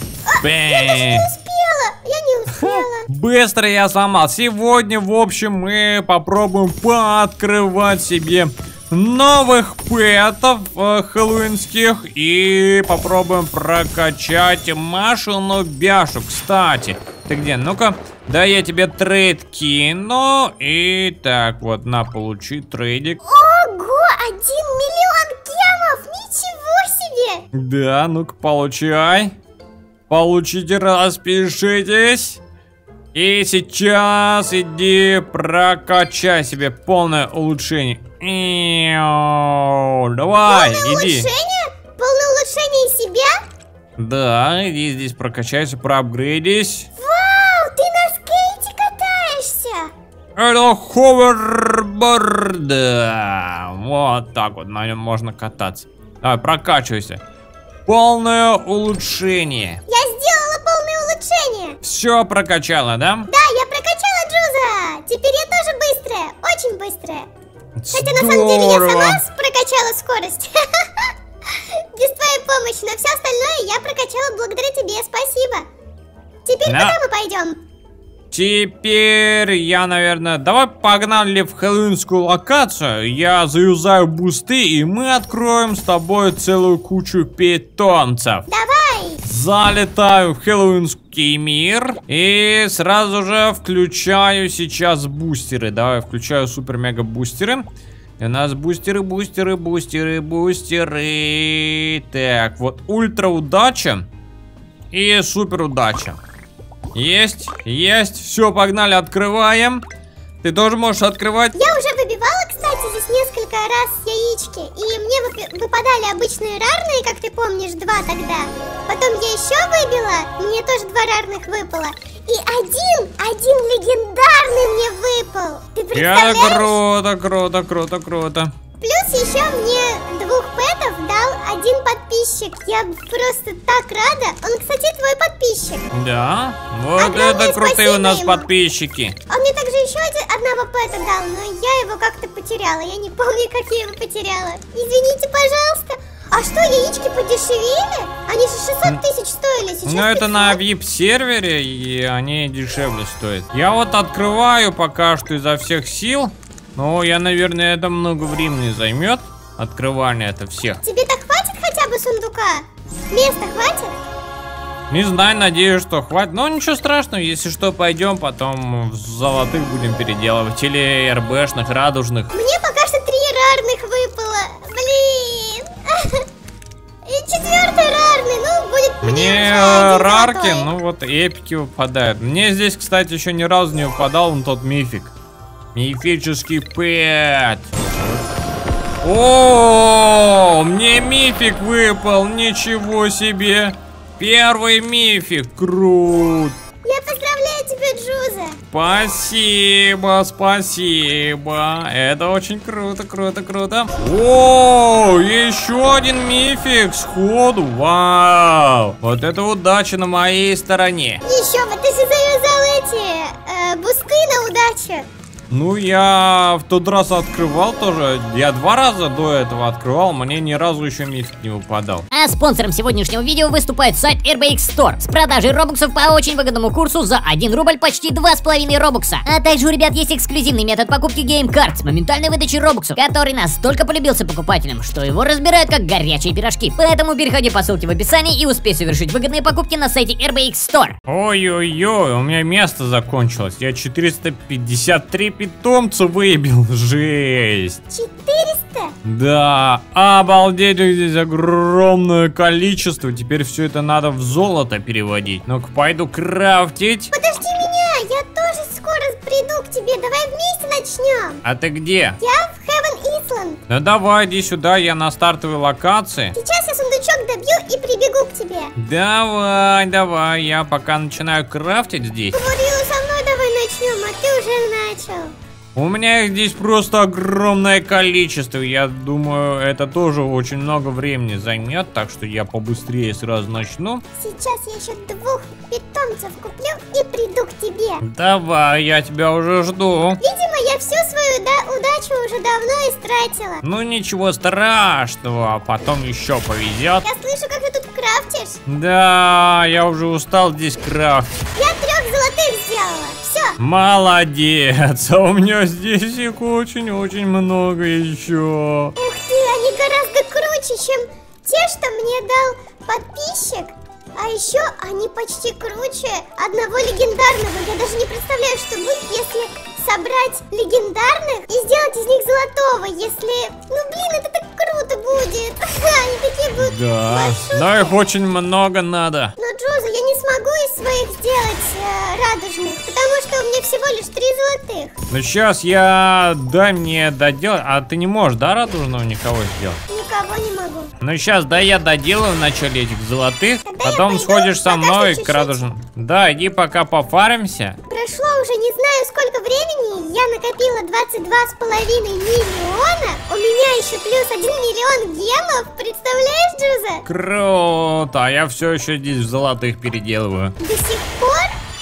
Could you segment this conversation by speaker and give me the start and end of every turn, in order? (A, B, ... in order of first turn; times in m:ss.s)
0:00.3-0:03.1 A
0:00.4-0:01.3 B
0:02.5-0:23.2 B
0:23.2-0:27.4 A
0:27.5-0:29.3 B
0:30.1-0:32.4 B
0:33.1-0:41.3 B
0:40.5-0:43.4 A
0:44.0-0:46.9 B
0:47.0-0:49.9 A
0:50.4-0:57.2 B
0:57.9-0:59.8 B
0:59.9-1:01.8 A
1:01.8-1:03.3 B
1:03.3-1:07.3 A
1:07.8-1:09.2 B
1:07.9-1:15.7 A
1:16.4-1:17.6 A
1:16.7-1:17.0 B
1:18.3-1:28.5 B
1:28.5-1:29.2 A
1:29.2-1:37.7 B
1:38.2-1:44.1 B
1:44.9-1:46.2 B
1:47.0-1:49.8 B
1:50.4-1:51.6 B
1:51.6-2:06.8 A
2:05.9-2:08.5 B
2:08.8-2:15.8 A
2:15.9-2:19.2 B
2:17.0-2:18.5 A
2:19.3-2:30.6 A
2:29.9-2:40.8 B
2:40.8-2:44.0 A
2:44.9-2:52.3 B
2:52.3-2:56.3 A
2:57.0-3:00.7 A
2:59.0-3:05.1 B
3:05.7-3:07.8 B
3:09.0-3:16.6 B
3:16.8-3:18.6 A
3:18.7-3:31.2 B
3:31.2-3:35.1 A
3:35.5-3:42.1 B
3:42.1-4:01.0 C
4:01.1-4:07.8 B
4:07.9-4:08.9 A
4:09.0-4:17.1 B
4:17.1-4:21.4 A
4:21.4-4:22.2 B
4:22.2-4:23.6 A
4:23.7-4:26.4 B
4:26.3-4:28.7 A
4:28.8-4:32.4 B
4:32.3-4:35.3 A
4:35.8-4:44.0 B
4:44.2-4:48.0 A
4:48.0-4:50.2 B
4:50.2-4:53.6 A
4:53.6-4:57.0 B
4:57.0-4:58.6 A
4:58.7-5:01.3 B
5:01.6-5:03.6 A
5:03.6-5:08.9 B
5:09.0-5:28.0 A
5:26.6-5:29.4 B
5:29.4-5:34.9 A
5:35.1-5:39.8 B
5:39.9-5:40.9 A
5:41.0-5:47.8 B
5:43.7-5:45.6 A
5:47.9-5:57.0 A
5:57.1-6:00.6 B
6:00.6-6:01.5 A